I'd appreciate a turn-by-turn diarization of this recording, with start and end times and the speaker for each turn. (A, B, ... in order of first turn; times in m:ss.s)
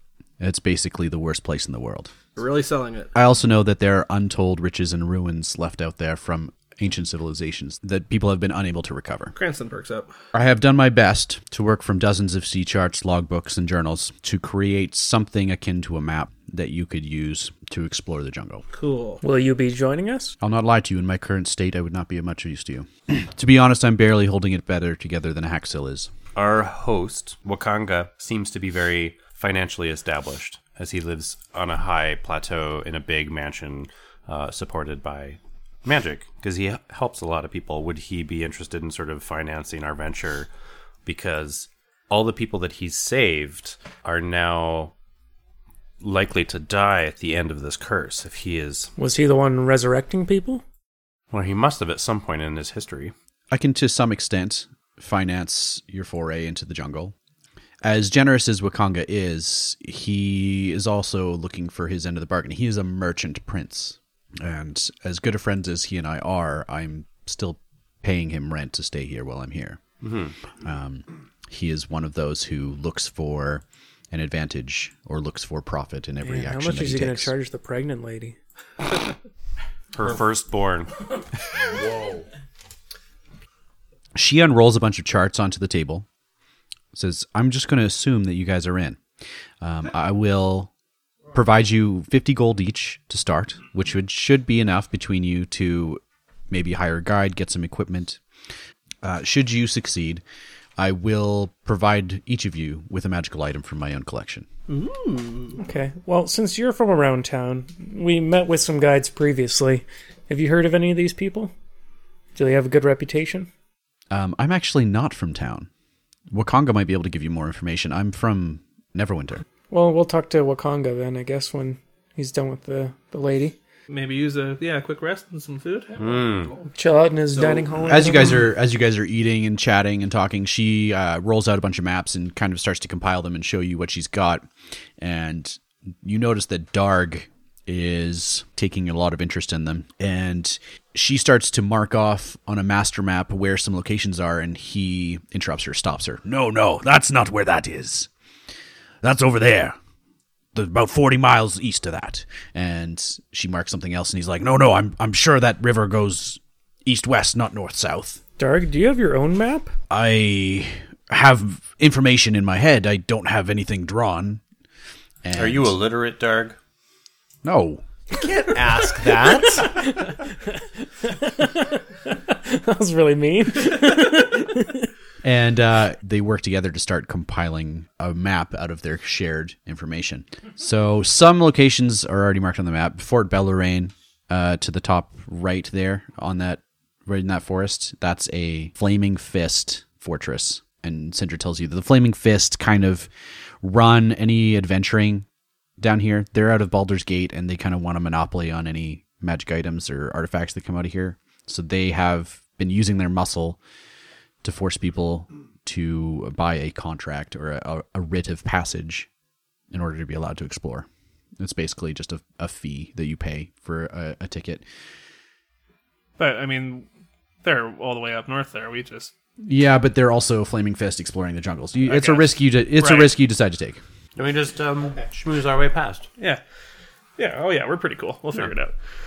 0:00.4-0:02.1 A
0:02.4-0:03.1 B
0:03.2-0:09.3 A
0:09.3-0:10.1 B
0:10.3-0:18.6 A
0:18.7-0:19.2 B
0:19.2-0:20.4 C
0:20.4-0:26.1 A
0:26.4-0:40.5 D
0:41.1-0:44.9 D
0:46.0-0:48.9 D
0:49.0-0:50.6 C
0:51.3-0:53.1 D
0:53.5-0:57.1 A
0:57.8-1:09.8 A
1:10.0-1:10.3 D
1:10.6-1:17.3 A
1:16.2-1:18.4 C
1:19.9-1:20.9 D
1:21.7-1:22.2 E
1:24.2-1:26.1 A
1:26.9-1:29.0 A
1:29.6-1:30.7 A
1:31.3-1:38.2 A
1:39.0-1:40.2 A
1:40.8-1:44.5 A
1:44.7-1:45.6 B
1:45.6-1:51.5 C
1:52.4-1:53.5 C
1:54.1-1:55.7 A
1:56.3-1:59.4 A
1:59.7-2:03.6 C
2:03.9-2:06.0 B
2:06.0-2:06.6 D
2:06.8-2:08.5 C
2:07.4-2:07.7 B
2:07.9-2:14.5 A
2:15.0-2:28.1 A
2:29.0-2:29.8 A
2:30.5-2:38.2 A
2:38.4-2:39.7 C
2:39.9-2:44.4 A
2:45.2-2:45.8 A
2:45.4-2:46.6 D
2:47.4-2:47.8 A
2:48.2-2:49.8 E
2:49.5-2:50.2 C
2:51.0-2:54.9 C
2:55.2-3:13.1 A
3:13.6-3:15.3 A
3:15.8-3:23.6 A
3:24.4-3:29.1 A
3:29.7-3:30.9 A
3:31.4-3:34.6 A
3:36.2-3:36.9 B
3:37.4-3:39.1 B
3:39.4-3:43.8 A
3:41.9-3:43.1 B
3:44.2-3:46.1 D
3:47.2-3:48.7 B